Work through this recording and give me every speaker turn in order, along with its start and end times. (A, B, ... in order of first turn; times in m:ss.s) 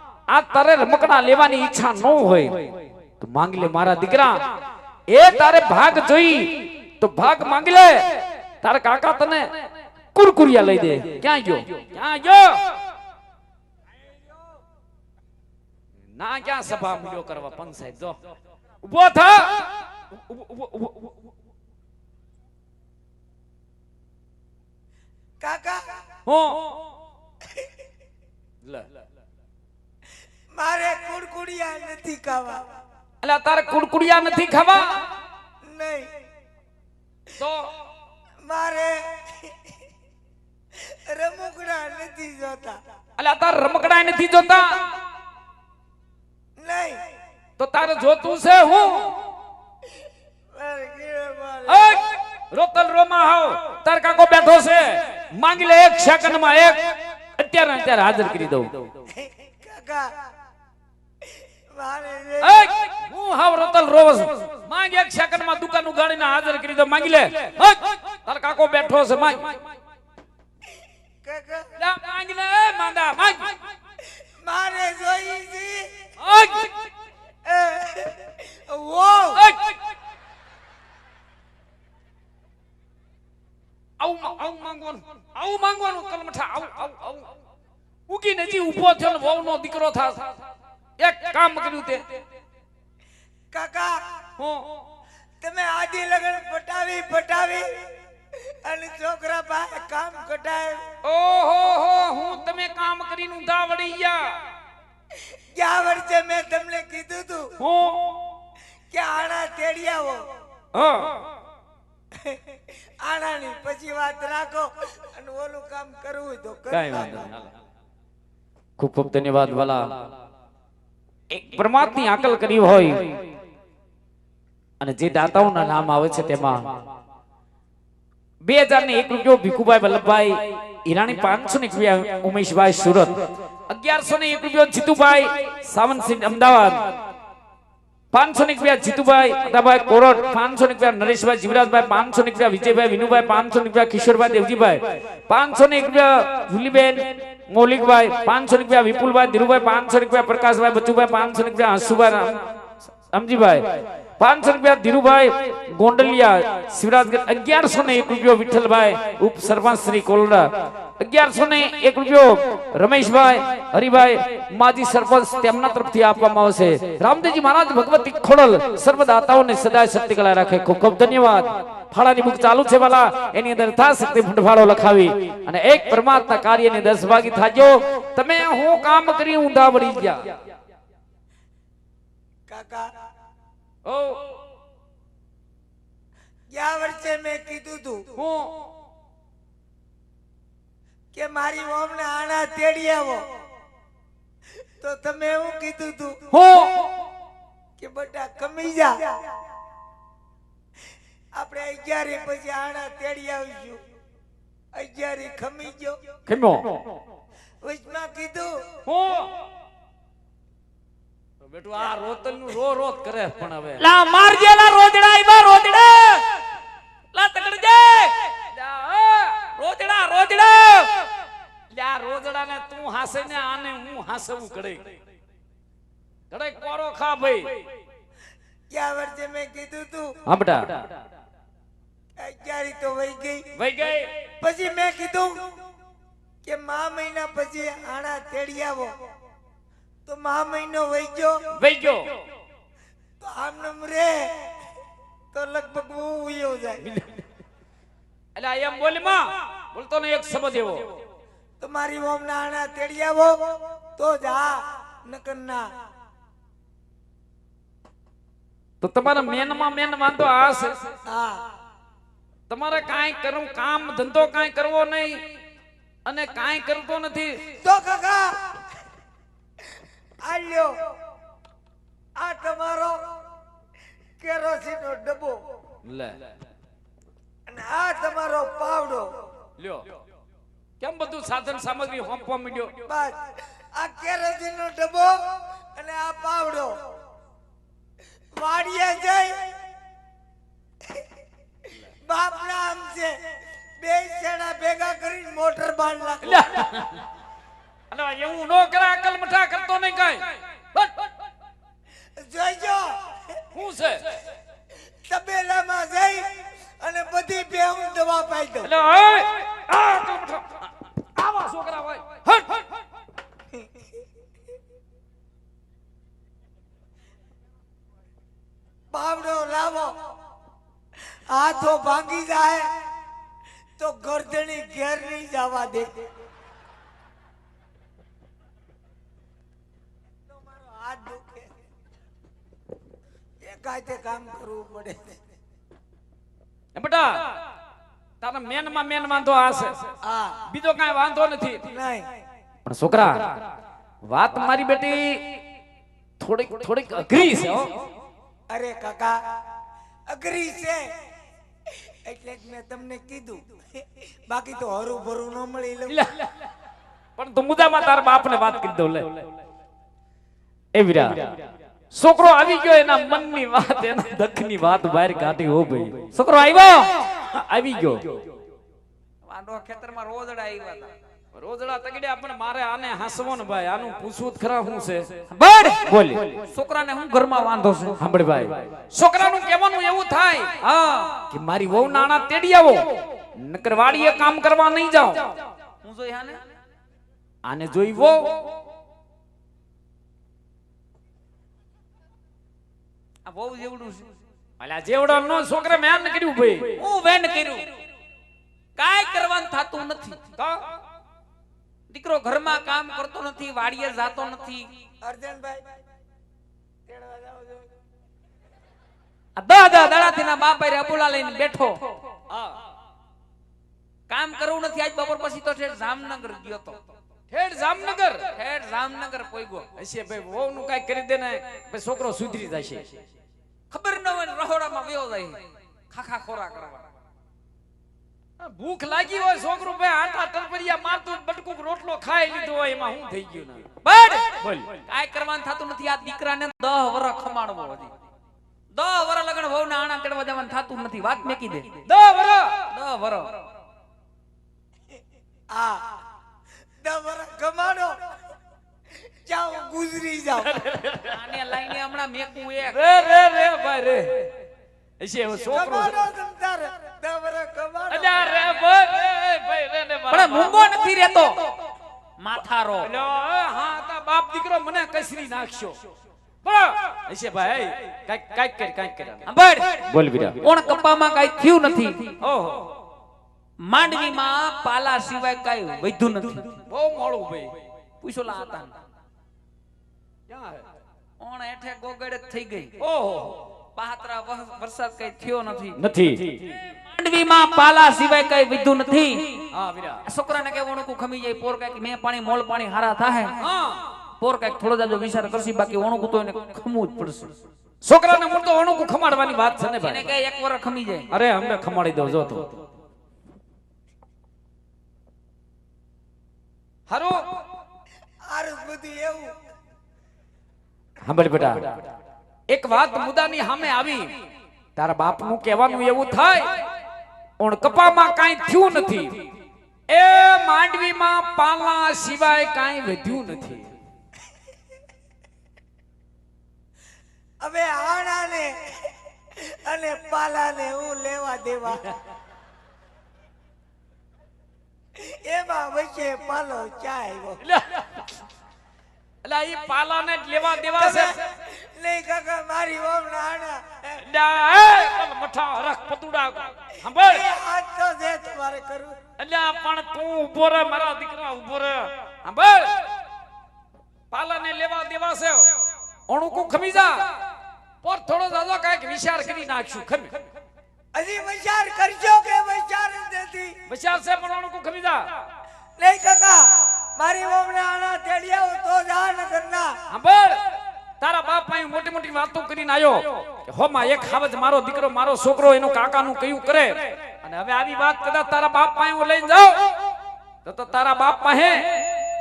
0:00.3-0:04.4 A
0:05.1-0:09.5 A
0:10.2-0:12.6 A
0:16.2-0:18.2 A
0:18.8-0:21.2 A
0:25.4-0:25.8 B
0:26.2-0:26.7 A
0:28.6-0:28.9 A
0:30.6-0:32.6 B
0:33.2-0:34.9 A
0:35.6-0:36.1 B
0:37.4-0:37.7 A
0:38.4-0:39.6 B
0:40.8-0:42.8 B
0:43.2-0:44.8 A
0:46.6-0:47.0 B
0:47.6-0:49.1 A
0:50.5-0:52.0 B
0:51.7-0:56.8 A
0:57.4-0:58.9 A
0:59.1-1:00.1 B
1:01.7-1:02.7 B
1:02.4-1:09.7 A
1:11.2-1:11.6 B
1:11.8-1:13.6 A
1:14.4-1:15.9 B
1:16.2-1:16.8 A
1:17.4-1:19.5 B
1:19.4-1:19.8 A
1:24.0-1:27.3 A
1:28.1-1:30.2 A
1:31.0-1:32.0 A
1:33.5-1:34.0 B
1:34.4-1:34.7 A
1:35.4-1:37.7 B
1:38.3-1:40.8 B
1:41.0-1:44.3 A
1:45.5-1:47.5 B
1:47.6-1:48.2 A
1:48.9-1:50.2 B
1:50.7-1:51.1 A
1:52.1-1:57.2 B
1:56.7-1:57.5 A
1:58.8-1:59.9 A
2:01.3-2:03.2 A
2:04.8-2:06.7 A
2:08.4-2:16.9 A
2:18.1-2:32.4 A
2:33.1-3:00.3 A
3:02.5-3:02.9 B
3:03.9-3:04.2 A
3:06.5-3:08.1 B
3:08.2-3:08.5 A
3:11.1-3:13.2 B
3:14.8-3:16.2 B
3:16.3-3:16.9 A
3:17.8-3:19.1 B
3:21.3-3:23.8 B
3:24.7-3:26.0 B
3:26.3-3:26.8 A
3:27.6-3:28.6 B
3:28.9-3:29.3 A
3:31.4-3:33.8 A
3:33.8-3:36.2 C
3:37.1-3:38.3 C
3:38.5-3:39.4 A
3:39.6-3:41.0 C
3:41.7-3:45.0 A
3:46.3-3:47.6 A
3:48.7-3:50.1 B
3:50.2-3:50.9 A
3:52.2-3:53.4 B
3:53.6-3:54.1 A
3:54.4-3:55.4 B
3:56.4-3:58.9 B
4:00.1-4:01.4 B
4:01.6-4:02.1 A
4:03.2-4:04.5 B
4:05.3-4:06.8 B
4:06.8-4:07.2 A
4:08.4-4:10.9 A
4:11.6-4:13.4 B
4:14.0-4:15.7 B
4:18.8-4:20.8 A
4:21.1-4:21.5 B
4:22.5-4:25.2 A
4:26.1-4:27.4 A
4:27.6-4:28.4 B
4:30.2-4:30.8 B
4:32.2-4:33.0 B
4:34.2-4:35.4 B
4:35.8-4:36.2 A
4:37.5-4:39.1 B
4:39.6-4:39.9 A
4:40.8-4:42.7 A
4:42.9-4:45.2 B
4:45.8-4:46.8 B
4:48.4-4:49.5 B
4:52.0-4:53.2 B
4:53.8-4:56.5 B
4:56.2-4:57.0 A
4:57.9-5:01.0 A
5:02.2-5:03.4 B
5:03.5-5:04.2 A
5:05.1-5:08.7 B
5:08.6-5:12.6 A
5:13.5-5:13.9 B
5:18.9-5:20.0 B
5:21.3-5:22.7 B
5:23.8-5:26.1 B
5:30.3-5:31.5 B
5:33.4-5:35.2 B
5:36.8-5:37.2 A
5:38.2-5:39.8 A
5:40.0-5:40.4 B
5:40.5-5:41.7 A
5:41.7-5:42.1 B
5:42.6-5:43.4 A
5:44.0-5:45.2 A
5:46.2-5:47.8 A
5:48.5-5:49.2 B
5:50.1-5:50.9 B
5:51.9-5:56.0 B
5:55.9-5:56.3 A
5:57.2-5:59.2 A
6:00.7-6:01.3 A
6:01.9-6:06.0 A
6:06.1-6:07.0 C
6:07.3-6:08.2 A
6:09.2-6:10.9 C
6:11.3-6:15.1 A
6:15.3-6:15.8 C
6:15.8-6:16.4 A
6:16.4-6:18.0 C
6:18.0-6:20.6 A
6:20.6-6:21.2 C
6:21.3-6:25.3 A
6:25.8-6:26.4 C
6:27.5-6:28.2 A
6:33.2-6:34.1 C
6:34.6-6:36.8 A
6:36.8-6:37.7 C
6:38.8-6:40.2 C
6:40.4-6:40.6 A
6:41.9-6:44.7 C
6:45.0-6:45.7 B
6:46.9-6:47.7 B
6:49.4-6:51.9 C
6:52.3-6:52.6 A
6:54.1-6:56.8 C
6:57.3-6:58.4 A
6:58.4-6:59.6 C
6:59.8-7:03.0 A
7:03.7-7:05.4 C
7:05.9-7:06.8 C
7:08.4-7:13.7 A
7:13.8-7:17.9 C
7:14.4-7:14.8 A
7:18.7-7:21.8 C
7:21.9-7:22.6 A
7:22.7-7:23.4 C
7:25.5-7:26.0 B
7:26.8-7:28.0 B
7:29.2-7:30.6 B
7:30.5-7:31.1 A
7:31.1-7:32.8 C
7:32.6-7:34.3 A
7:35.0-7:36.0 A
7:35.4-7:38.1 B
7:37.9-7:40.7 A
7:40.1-7:41.5 C
7:42.2-7:42.9 C
7:42.8-7:45.8 A
7:46.4-7:49.2 A
7:49.3-7:49.8 C
7:49.9-7:50.4 A
7:50.4-7:52.1 C
7:52.2-7:52.7 A
7:53.6-7:56.6 C
7:56.7-7:57.5 A
7:58.0-7:58.8 C
8:00.3-8:00.6 A
8:01.2-8:02.8 C
8:02.8-8:03.4 A
8:03.8-8:05.8 C
8:05.8-8:06.6 A
8:06.9-8:09.4 C
8:09.5-8:10.0 A
8:10.1-8:13.4 C
8:13.4-8:13.8 A
8:14.2-8:17.4 C
8:17.8-8:20.1 A
8:19.8-8:21.1 C
8:21.1-8:22.6 A
8:26.9-8:27.2 A
8:28.3-8:29.4 B
8:31.0-8:31.8 A
8:32.5-8:34.1 A
8:34.8-8:36.5 A
8:37.4-8:39.3 A
8:39.9-8:43.7 A
8:47.4-8:52.0 B
8:55.0-8:57.4 B
8:57.4-8:58.1 A
8:59.2-9:01.2 A
9:00.6-9:04.0 B
9:04.0-9:07.3 A
9:07.0-9:09.0 B
9:09.2-9:12.8 A
9:14.1-9:15.5 A
9:16.1-9:17.0 A
9:17.8-9:20.2 A
9:20.9-9:23.6 B
9:23.7-9:25.1 A
9:25.8-9:26.4 B
9:27.0-9:29.7 B
9:29.9-9:30.4 A
9:31.0-9:39.6 A
9:40.4-9:41.7 A